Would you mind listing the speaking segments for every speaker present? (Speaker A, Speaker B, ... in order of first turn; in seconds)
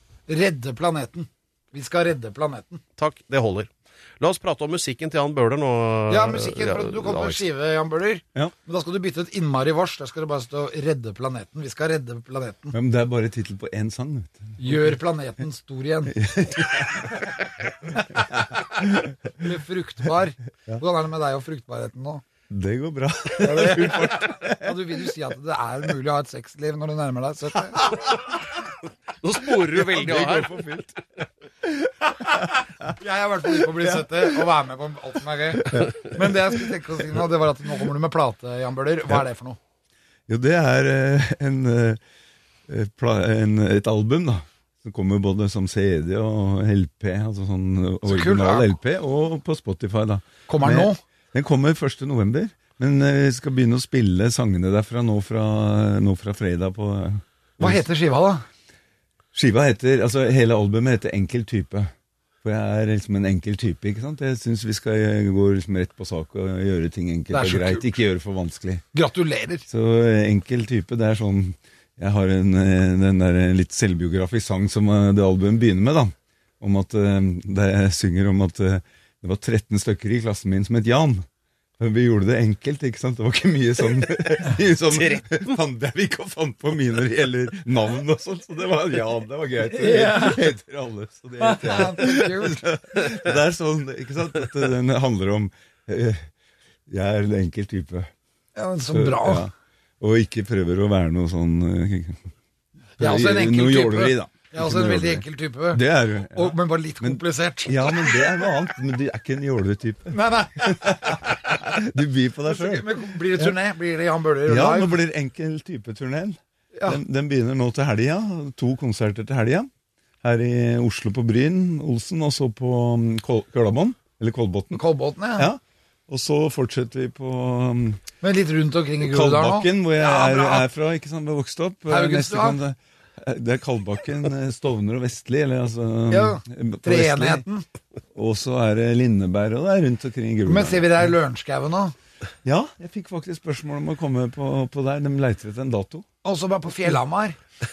Speaker A: 0.3-2.8, 6.1-12.7, 14.6-16.2, 19.3-22.2, 23.4-28.0, 32.8-39.6, 48.0-48.7, 50.5-51.0, 57.6-58.4, 67.3-67.9, 68.9-69.6, 89.7-90.5, 91.4-92.7, 98.5-99.5, 103.0-108.6, 110.1-111.8, 112.4-115.0, 124.7-125.5, 128.2-130.7, 131.9-132.6, 136.1-137.6, 140.4-141.9, 146.2-147.4
Speaker B: 3.0-7.4, 29.2-30.5, 84.9-85.5
Speaker C: 12.7-14.8, 16.1-17.3, 18.1-19.2, 22.5-24.9, 27.8-28.1, 29.7-32.9, 35.6-37.2, 40.3-42.0, 42.7-57.8, 59.3-61.9, 62.4-68.8, 69.7-81.2, 81.8-96.3, 96.9-98.1, 98.9-102.3, 103.0-113.5, 114.5-119.7, 120.2-124.8, 125.3-128.0, 129.0-137.4, 138.1-141.1, 142.4-146.0